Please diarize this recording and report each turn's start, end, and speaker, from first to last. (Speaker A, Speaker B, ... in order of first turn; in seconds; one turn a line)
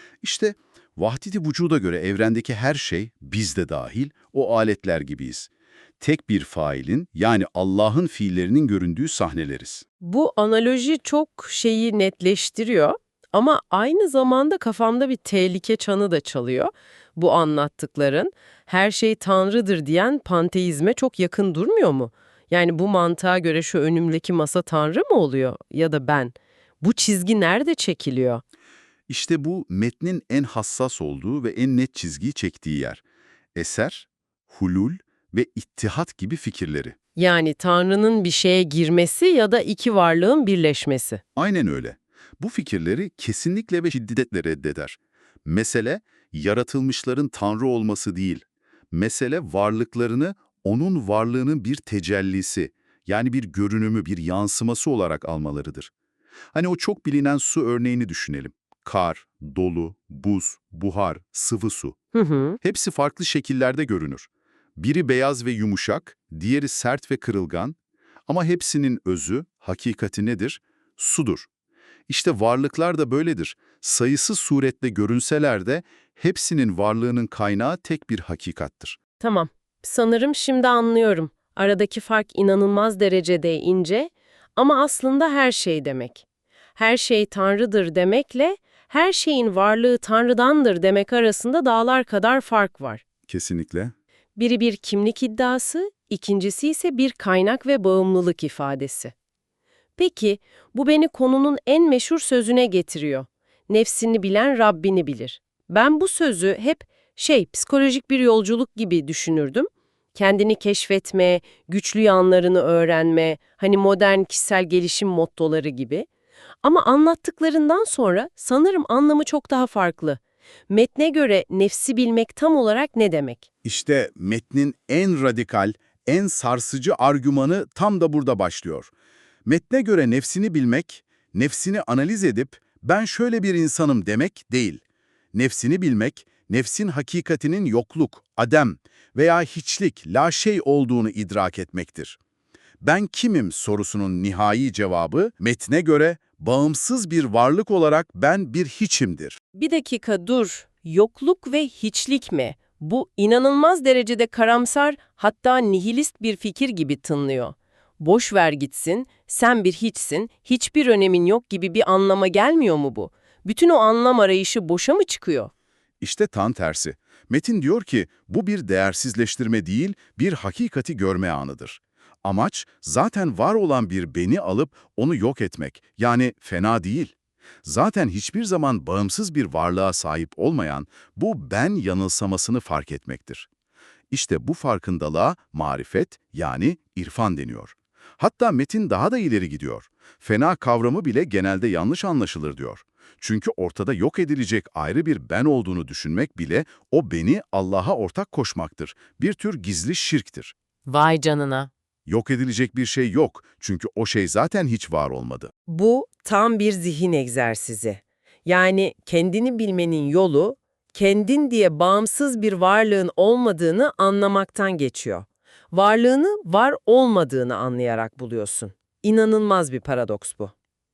Speaker A: 0.2-9.8
Speaker B: 10.0-28.4
Speaker A: 29.1-33.0
Speaker A: 33.5-37.0
Speaker B: 37.2-41.2
Speaker A: 41.4-55.9
Speaker A: 56.5-62.0
Speaker B: 62.1-62.6
Speaker A: 62.6-67.8
Speaker A: 68.3-71.5
Speaker A: 72.1-79.0
Speaker B: 79.2-86.2
Speaker B: 86.8-93.0
Speaker A: 93.3-93.9
Speaker B: 94.4-99.1
Speaker B: 100.0-116.1
Speaker B: 116.6-123.5
Speaker A: 123.7-128.9
Speaker A: 129.4-134.8
Speaker A: 135.3-142.2
Speaker A: 142.8-149.4
Speaker B: 149.5-165.5
Speaker A: 166.0-183.5
Speaker A: 184.1-200.6
Speaker B: 200.9-201.7
Speaker A: 202.1-205.5
Speaker B: 205.7-220.5